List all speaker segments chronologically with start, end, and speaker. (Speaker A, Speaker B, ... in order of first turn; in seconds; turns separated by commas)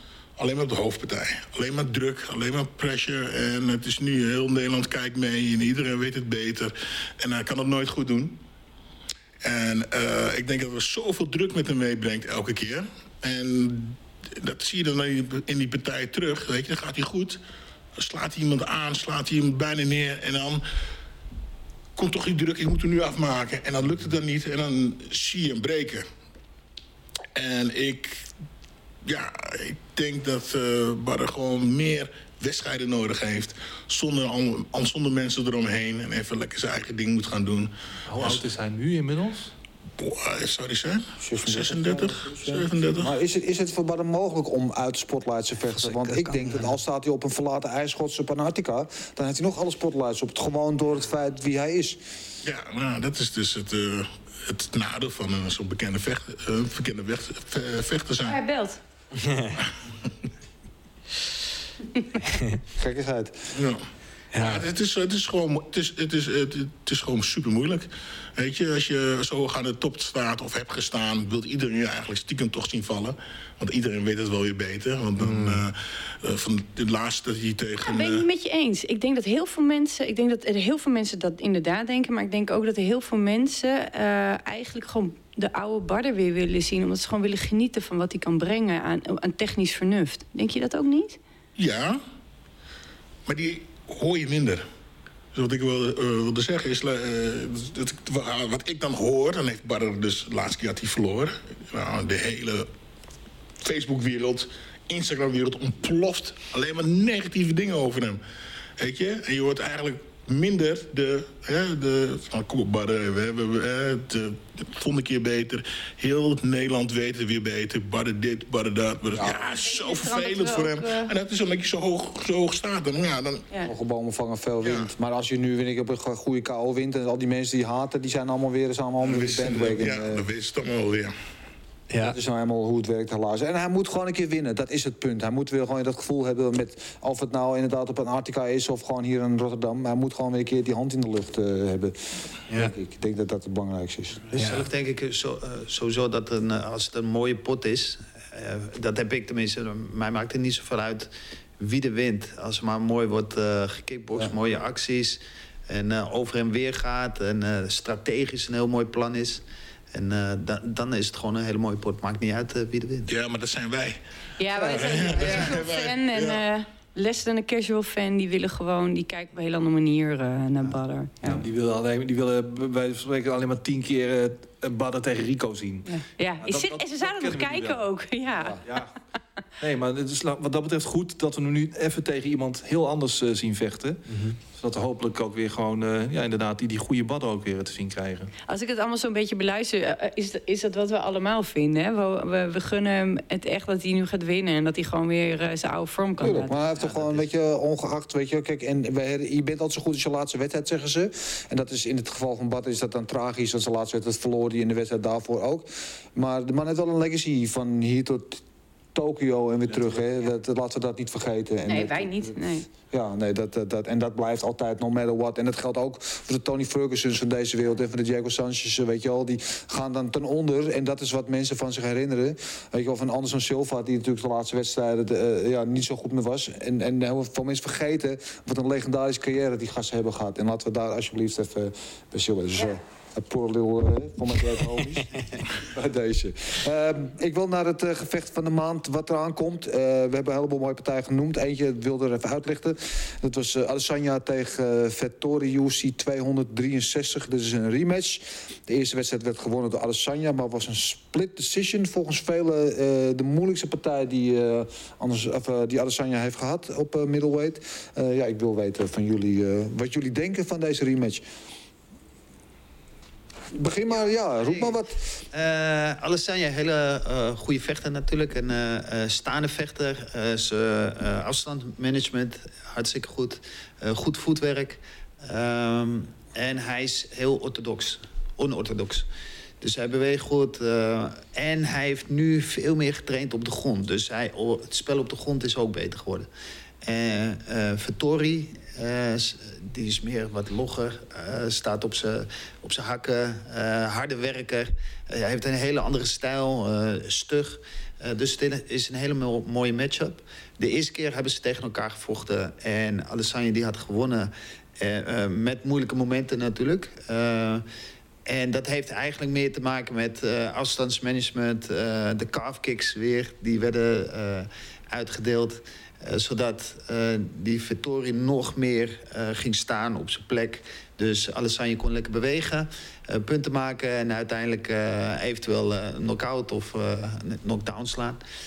Speaker A: 0.4-8.4, Speaker A: 9.4-17.4, Speaker A: 18.0-20.6, Speaker A: 21.9-26.1, Speaker A: 27.4-28.3, Speaker A: 29.1-38.4, Speaker B: 38.1-39.5, Speaker A: 40.0-43.1, Speaker C: 41.2-52.0, Speaker A: 52.4-58.4, Speaker D: 58.2-58.8, Speaker E: 59.2-59.6, Speaker E: 62.3-62.6, Speaker C: 62.7-63.5, Speaker A: 63.5-63.8, Speaker E: 64.3-64.7, Speaker A: 64.3-78.3, Speaker E: 75.2-75.6, Speaker D: 77.8-91.2, Speaker A: 91.6-92.0, Speaker A: 93.3-94.6, Speaker A: 95.3-102.7, Speaker A: 103.6-108.2, Speaker A: 108.8-123.4, Speaker C: 119.2-119.5, Speaker D: 119.5-121.1, Speaker C: 123.6-130.2, Speaker A: 124.6-124.9, Speaker A: 129.0-131.1, Speaker E: 131.9-132.2, Speaker C: 132.0-144.3, Speaker F: 144.3-163.1, Speaker E: 144.4-144.7, Speaker A: 163.1-164.0, Speaker D: 164.4-171.4, Speaker C: 164.6-164.8, Speaker A: 164.6-166.4, Speaker F: 165.1-165.6, Speaker B: 171.2-175.9, Speaker D: 175.9-178.6, Speaker B: 176.4-177.9, Speaker B: 178.6-178.9, Speaker B: 179.6-188.3, Speaker D: 188.5-196.5, Speaker C: 196.2-208.4, Speaker F: 196.7-197.2, Speaker C: 208.9-212.4, Speaker D: 211.6-212.7, Speaker C: 212.9-261.2, Speaker C: 263.5-265.2, Speaker F: 263.9-264.8, Speaker F: 265.3-279.1, Speaker F: 279.6-286.3, Speaker F: 286.8-307.6, Speaker F: 308.3-328.2